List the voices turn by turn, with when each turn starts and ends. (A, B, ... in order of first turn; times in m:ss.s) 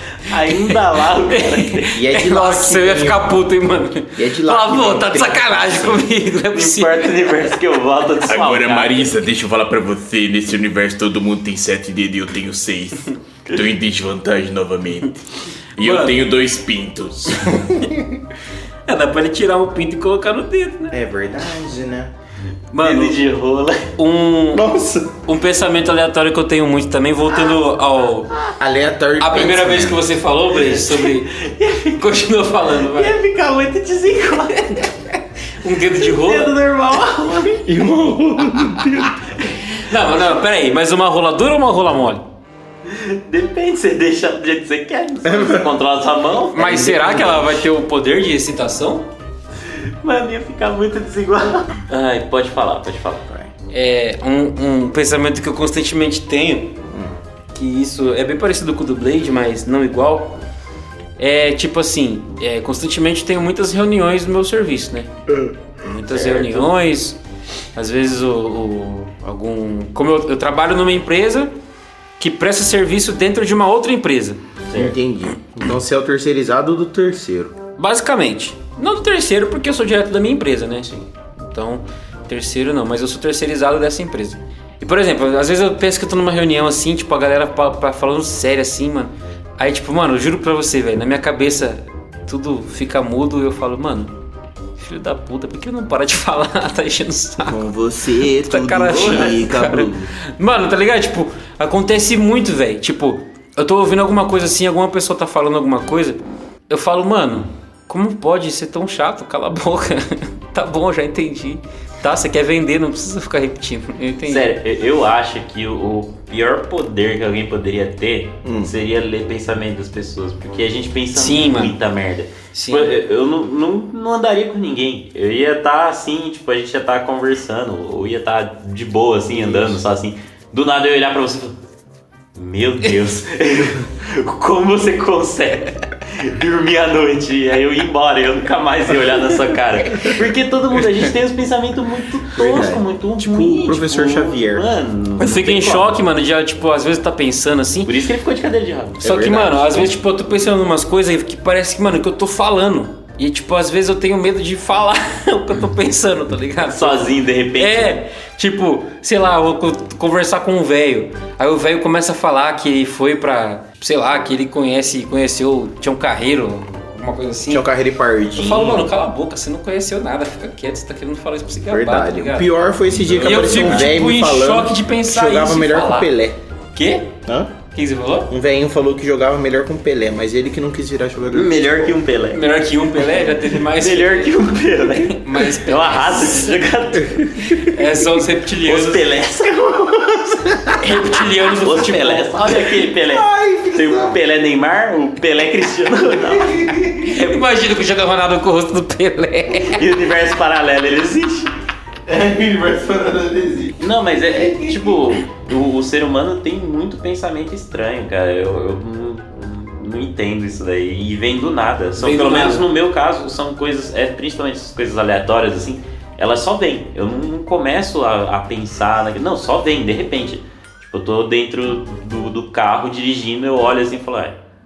0:00.2-0:02.0 A
0:00.4-0:00.8 B
0:01.3-0:07.3 B
0:01.9-0:03.3 C
0:04.1-0:06.0 C
0:06.5-0:09.2 A
0:08.3-0:13.0 D
0:08.4-0:12.9 C
0:13.5-0:15.1 D
0:13.6-0:14.9 C
0:15.8-0:16.2 B
0:15.8-0:17.6 D
0:15.8-0:18.2 C
0:18.9-0:20.9 B
0:20.9-0:22.1 C
0:22.7-0:23.2 B
0:22.8-0:23.9 A
0:24.0-0:24.7 B
0:24.5-0:25.2 C
0:25.2-0:28.4 B
0:28.6-0:30.0 C
0:29.2-0:31.3 B
0:30.6-0:32.1 A
0:32.0-0:33.2 B
0:32.7-0:34.9 A
0:34.6-0:34.9 B
0:35.6-0:36.5 B
0:36.0-0:37.7 A
0:37.6-0:39.1 C
0:39.0-0:39.5 A
0:39.7-0:42.2 B
0:42.8-0:46.7 A
0:45.3-0:45.6 C
0:46.5-0:49.1 B
0:46.6-0:47.7 C
0:49.6-0:53.3 A
0:53.7-0:56.8 B
0:56.9-0:57.2 C
0:57.5-1:00.4 B
1:01.2-1:05.1 B
1:05.8-1:07.2 B
1:06.0-1:06.7 A
1:07.7-1:11.5 B
1:12.2-1:14.4 B
1:14.7-1:15.0 A
1:14.7-1:17.5 C
1:17.8-1:34.1 B
1:34.8-1:37.6 B
1:37.4-1:40.1 C
1:38.4-1:54.4 B
1:38.9-1:39.4 A
1:54.3-2:11.6 A
1:58.4-1:58.7 C
2:01.1-2:01.7 B
2:02.5-2:02.9 B
2:12.4-2:26.0 A
2:22.4-2:24.7 C
2:25.2-2:27.9 B
2:27.9-2:29.0 A
2:29.0-2:29.9 C
2:29.0-2:47.7 B
2:36.6-2:38.0 A
2:47.4-2:48.9 C
2:48.4-2:52.5 B
2:51.7-2:56.4 C
2:53.1-2:53.8 A
2:53.2-2:56.1 B
2:56.7-2:57.1 B
2:57.2-2:57.5 C
2:57.7-2:58.3 B
2:58.3-3:02.0 C
3:01.3-3:07.6 A
3:02.3-3:04.4 B
3:05.1-3:06.5 B
3:07.4-3:09.0 B
3:08.6-3:17.4 A
3:09.7-3:10.8 C
3:10.8-3:12.4 B
3:13.0-3:14.2 C
3:16.2-3:17.0 C
3:17.0-3:19.8 B
3:19.6-3:21.5 A
3:22.1-3:25.1 C
3:23.8-3:44.4 A
3:32.0-3:32.6 B